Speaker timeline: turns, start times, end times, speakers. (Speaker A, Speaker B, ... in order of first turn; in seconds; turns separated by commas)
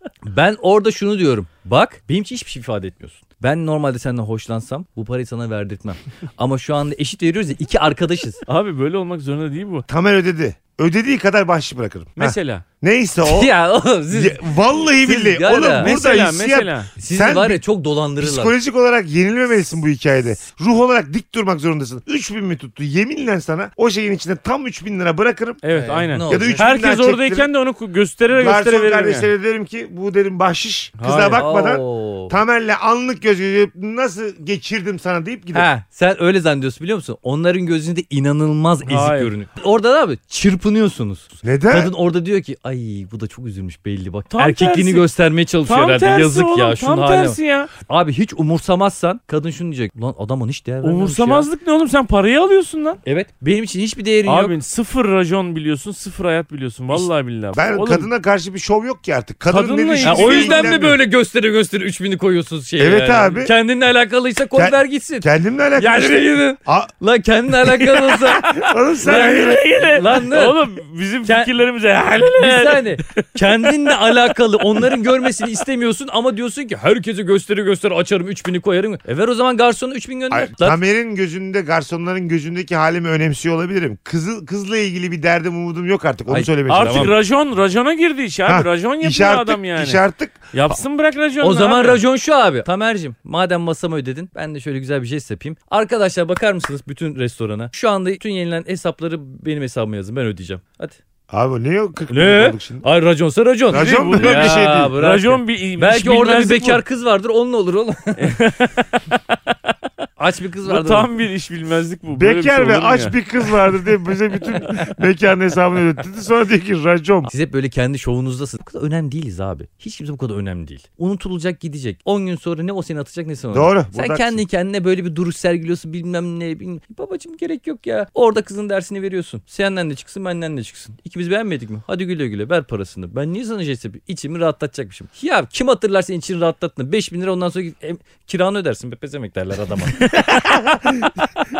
Speaker A: 0.2-8.4, Speaker B: 8.4-9.8, Speaker C: 9.9-13.5, Speaker B: 12.2-12.6, Speaker A: 13.2-15.9, Speaker C: 14.1-17.6, Speaker B: 15.7-16.9, Speaker A: 17.0-18.5, Speaker C: 18.2-27.5, Speaker B: 25.6-29.3, Speaker A: 25.7-26.7, Speaker C: 28.3-35.7, Speaker B: 31.0-31.4, Speaker A: 31.3-32.4, Speaker A: 35.5-51.5, Speaker B: 38.9-39.3, Speaker C: 41.4-41.9, Speaker B: 44.3-45.1, Speaker B: 45.6-47.7, Speaker B: 50.8-53.0, Speaker A: 53.0-54.5, Speaker B: 54.2-58.1, Speaker C: 56.9-61.0, Speaker B: 59.5-60.9, Speaker A: 60.0-70.6, Speaker C: 62.8-63.5, Speaker C: 64.5-66.9, Speaker C: 68.4-69.7, Speaker B: 68.4-74.2, Speaker A: 71.2-71.5, Speaker A: 72.4-80.8, Speaker C: 80.3-87.2, Speaker A: 86.3-87.2, Speaker B: 86.7-92.0, Speaker C: 88.5-90.7, Speaker A: 91.4-101.0, Speaker C: 101.3-102.8, Speaker A: 102.1-108.4, Speaker C: 103.7-105.0, Speaker B: 103.7-106.8, Speaker B: 108.2-109.4, Speaker A: 110.2-111.1, Speaker B: 110.6-113.5, Speaker C: 112.1-117.3, Speaker A: 117.2-140.0, Speaker C: 123.5-124.4, Speaker C: 140.2-141.2